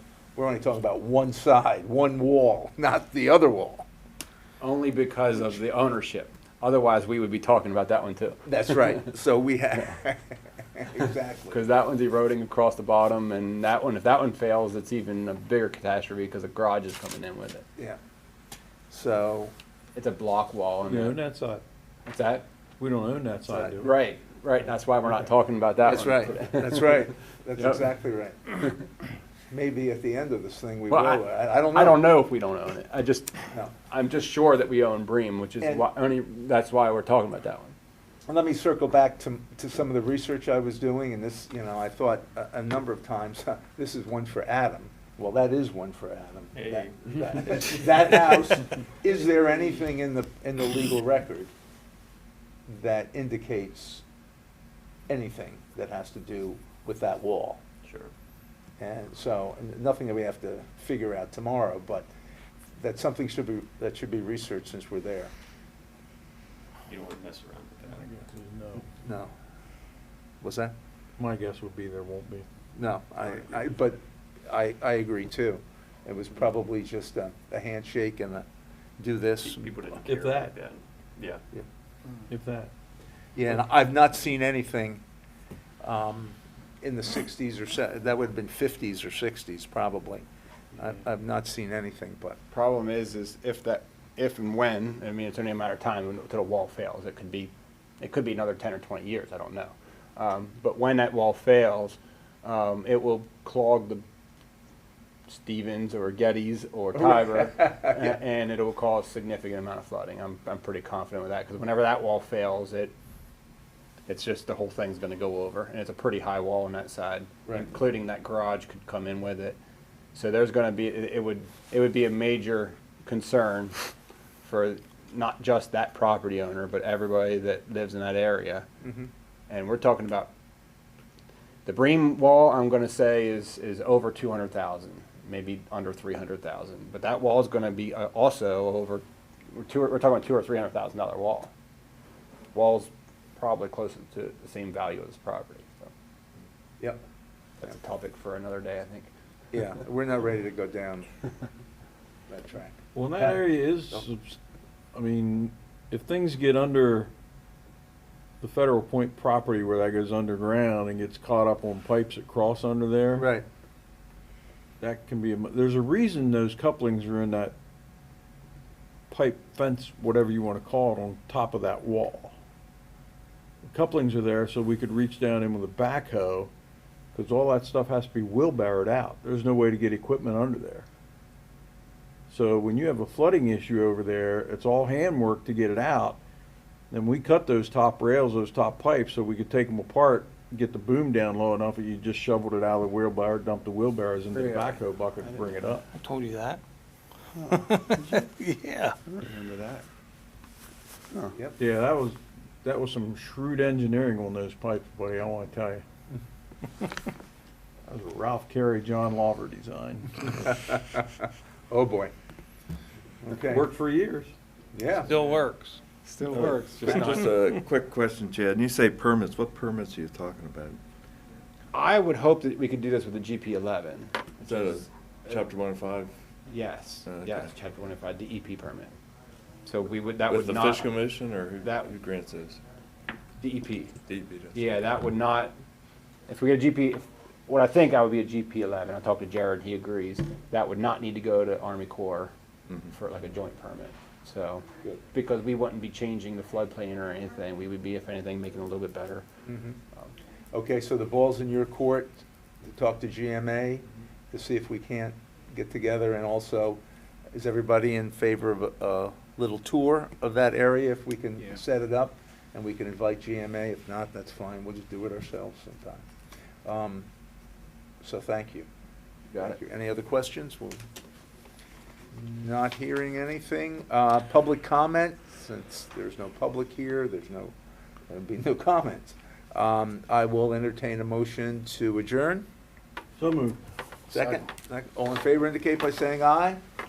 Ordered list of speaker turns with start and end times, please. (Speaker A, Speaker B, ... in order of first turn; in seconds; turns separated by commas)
Speaker A: 0.4-3.9, Speaker B: 4.6-9.0, Speaker A: 8.5-11.6, Speaker B: 11.5-17.6, Speaker A: 18.9-19.5, Speaker B: 19.9-21.2, Speaker C: 20.9-21.6, Speaker B: 22.1-22.5, Speaker C: 22.8-23.9, Speaker A: 23.5-23.8, Speaker B: 23.8-27.9, Speaker A: 25.8-28.7, Speaker A: 29.5-32.1, Speaker B: 30.9-37.7, Speaker A: 35.6-35.9, Speaker A: 38.3-51.5, Speaker D: 46.5-48.1, Speaker A: 52.7-54.0, Speaker A: 55.1-57.6, Speaker D: 57.8-58.1, Speaker A: 58.8-62.1, Speaker A: 62.8-65.3, Speaker D: 66.9-68.2, Speaker C: 68.0-68.9, Speaker A: 69.0-69.3, Speaker A: 70.4-70.7, Speaker C: 71.2-72.5, Speaker A: 72.8-78.5, Speaker A: 79.0-80.0, Speaker D: 79.4-81.4, Speaker C: 80.1-80.5, Speaker C: 82.3-82.7, Speaker A: 83.4-85.0, Speaker A: 85.8-90.2, Speaker A: 90.8-92.4, Speaker B: 92.5-104.0, Speaker B: 105.3-112.9, Speaker A: 107.0-108.2, Speaker B: 114.1-119.6, Speaker B: 120.2-123.8, Speaker B: 124.4-128.7, Speaker A: 128.8-129.1, Speaker B: 129.5-130.3, Speaker B: 131.7-141.5, Speaker B: 142.5-145.9, Speaker B: 147.6-149.1, Speaker A: 149.5-151.1, Speaker A: 152.3-154.1, Speaker C: 152.9-154.4, Speaker C: 154.9-157.1, Speaker C: 158.4-163.3, Speaker A: 163.2-163.4, Speaker C: 164.8-167.6, Speaker C: 169.1-172.3, Speaker C: 173.7-176.5, Speaker C: 177.1-180.9, Speaker C: 182.3-186.2, Speaker C: 186.9-195.9, Speaker B: 194.3-195.4, Speaker E: 195.9-196.6, Speaker E: 197.4-199.0, Speaker B: 199.2-199.8, Speaker C: 201.6-205.8, Speaker C: 207.9-210.3, Speaker A: 210.3-212.1, Speaker A: 213.2-213.7, Speaker C: 213.4-214.3, Speaker A: 214.7-215.2, Speaker E: 215.1-215.8, Speaker B: 216.2-217.4, Speaker F: 216.3-220.8, Speaker B: 221.7-224.7, Speaker F: 224.4-226.1, Speaker B: 226.5-228.9, Speaker F: 227.1-227.5, Speaker B: 229.7-231.1, Speaker F: 230.3-232.6, Speaker B: 231.6-231.9, Speaker B: 233.4-233.9, Speaker F: 234.1-234.7, Speaker B: 234.5-235.5, Speaker B: 236.3-242.3, Speaker B: 242.9-249.2, Speaker A: 249.5-249.8, Speaker A: 250.5-256.8, Speaker A: 257.3-266.1, Speaker A: 266.6-267.1, Speaker A: 268.0-268.7, Speaker A: 269.4-270.8, Speaker A: 272.1-277.5, Speaker A: 278.1-282.5, Speaker C: 283.2-283.6, Speaker A: 284.1-286.6